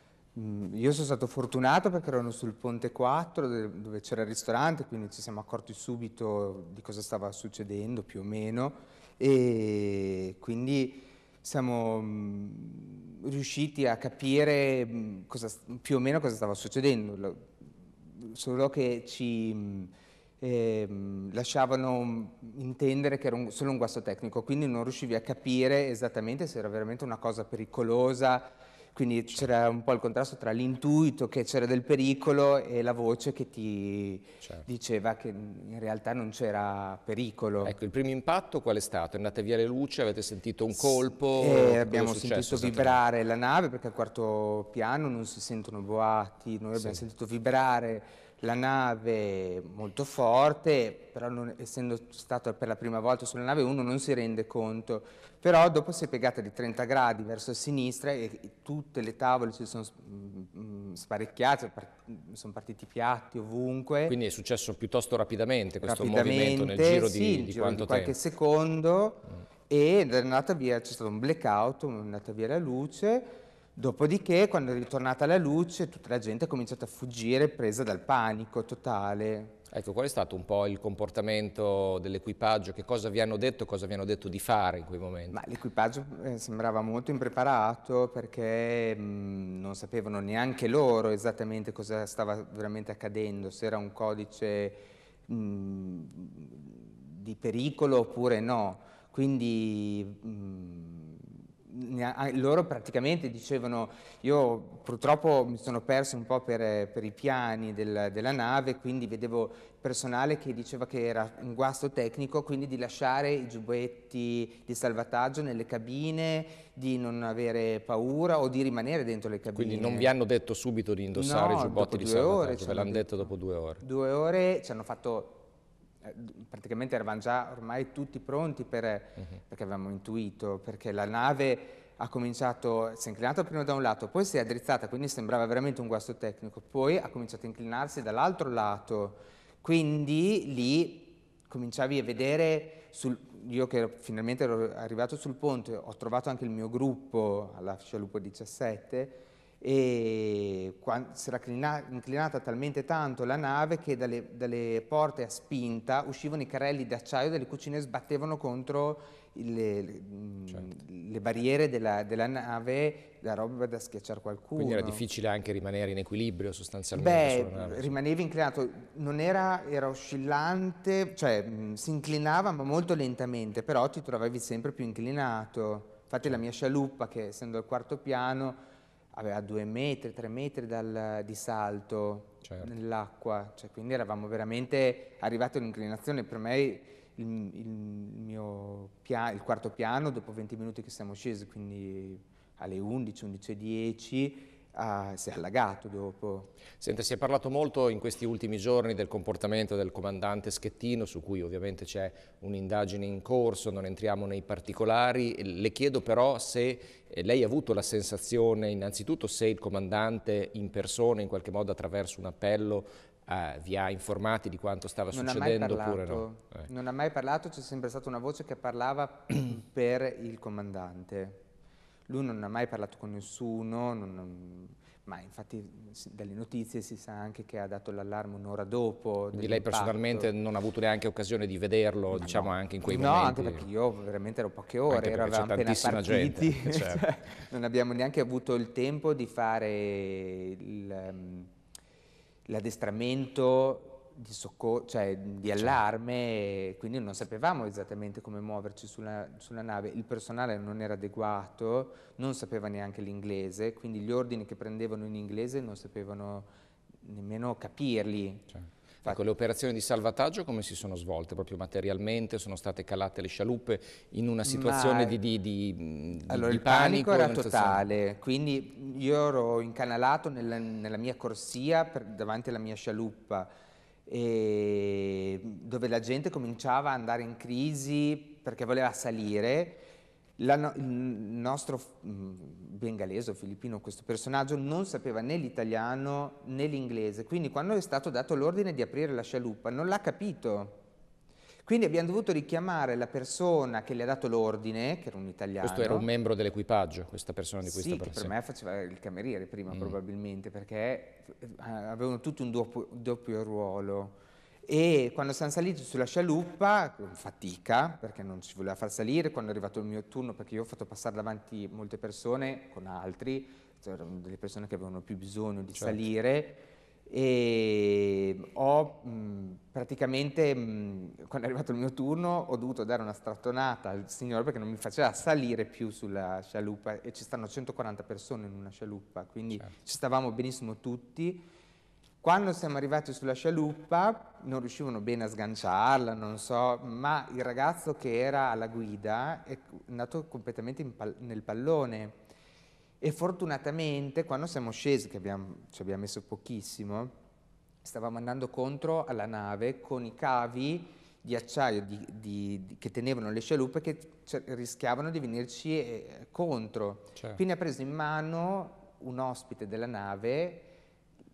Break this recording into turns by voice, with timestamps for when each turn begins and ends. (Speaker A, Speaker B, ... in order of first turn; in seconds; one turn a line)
Speaker A: 0.3-17.5
Speaker A: 18.1-37.7
Speaker B: 34.4-34.7
Speaker B: 37.6-43.0
Speaker A: 40.8-64.2
Speaker B: 46.8-47.0
Speaker B: 64.1-68.1
Speaker A: 65.8-79.6
Speaker B: 79.7-85.4
Speaker A: 85.3-120.1
Speaker B: 119.5-123.8
Speaker A: 121.1-125.5
Speaker A: 126.0-165.0
Speaker B: 164.6-168.0
Speaker A: 166.9-178.6
Speaker A: 179.1-196.5
Speaker B: 182.4-182.7
Speaker B: 196.8-216.6
Speaker A: 215.1-221.4
Speaker A: 222.1-230.3
Speaker B: 229.3-233.7
Speaker A: 232.1-241.5
Speaker B: 234.9-237.1
Speaker A: 242.5-256.5
Speaker A: 257.0-258.5
Speaker B: 259.0-267.8
Speaker A: 264.4-265.1
Speaker A: 266.2-273.5
Speaker A: 274.1-279.8
Speaker A: 280.4-290.8
Speaker A: 291.6-296.1
Speaker B: 295.6-298.3
Speaker A: 297.6-331.5
Speaker A: 332.2-342.2
Speaker A: 343.0-347.1
Speaker A: 347.8-360.7